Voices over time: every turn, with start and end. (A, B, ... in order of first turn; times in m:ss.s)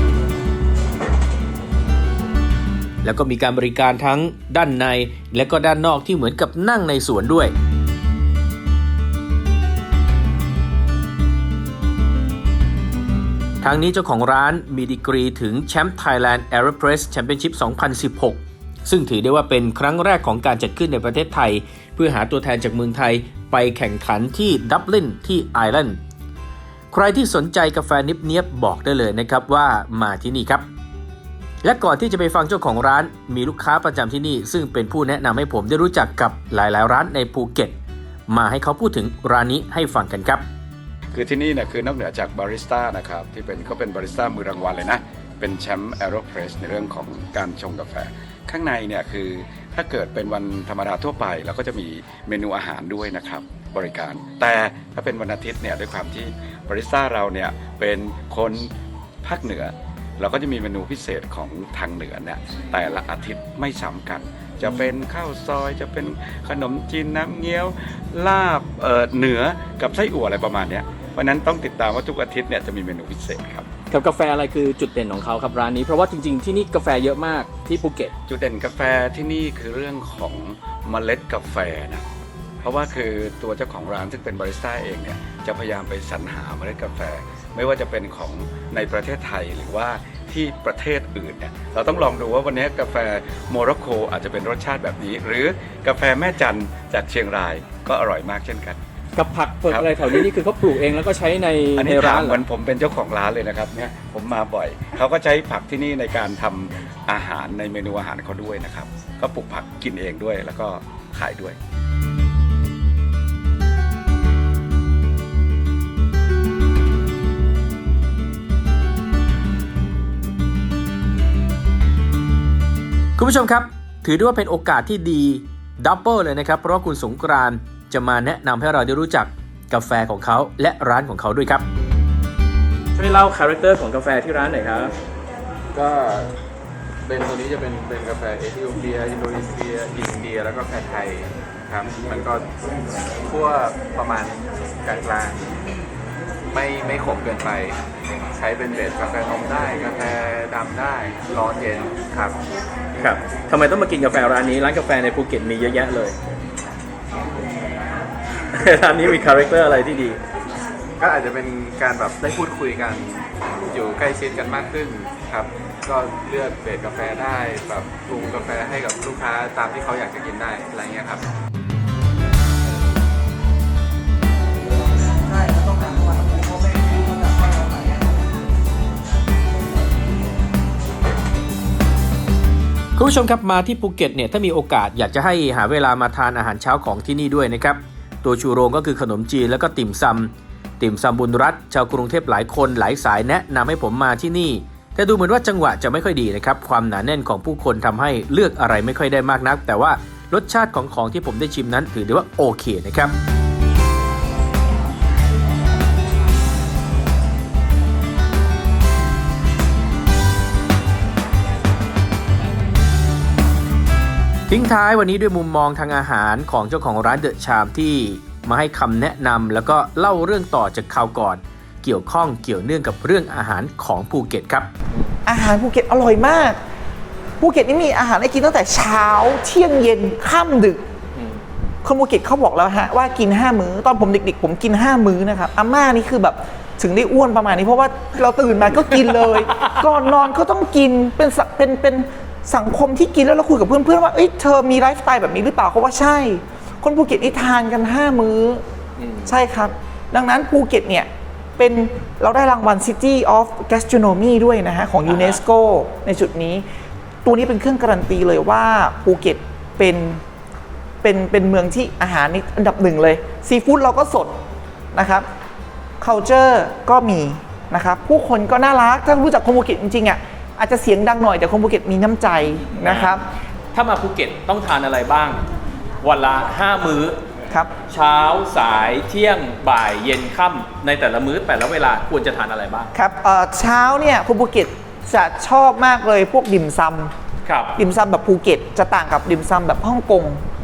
0:03.0-0:07.5 A
0:13.6-0:26.0 A
0:26.9-0:30.7 A
0:31.6-0:37.7 A
0:38.3-0:40.4 A
0:41.1-0:58.7 B
0:59.2-1:13.7 B
1:13.9-1:18.1 C
1:18.3-1:22.0 B
1:22.6-1:38.8 B
1:39.2-1:42.4 C
1:39.7-1:40.3 B
1:41.8-1:51.6 B
2:03.2-2:11.6 A
2:13.0-2:14.9 C
2:15.7-2:16.3 D
2:17.1-2:22.5 D
2:23.2-2:25.5 D
2:26.5-2:27.8 D
2:28.3-2:32.4 D
2:33.0-2:36.2 C
2:38.5-2:40.2 C
2:41.0-2:51.3 D
2:55.4-2:58.2 E
3:03.0-3:23.1 A
3:34.5-3:44.7 A
3:44.9-3:45.2 C
3:45.3-3:46.6 E
3:47.4-3:50.8 E
3:51.2-3:51.4 C
3:51.8-4:08.6 E
3:59.4-3:59.7 C
4:09.0-4:09.4 C
4:09.3-4:16.6 E
4:15.0-4:15.4 C
4:17.2-4:20.2 E
4:21.0-4:24.4 E
4:24.9-4:25.3 E
4:26.0-4:33.2 E
4:32.8-4:33.2 C
4:33.7-4:35.4 C
4:36.0-4:37.2 C
4:37.9-4:42.9 C
4:42.9-4:47.1 E
4:47.4-4:47.8 C
4:47.8-4:50.4 E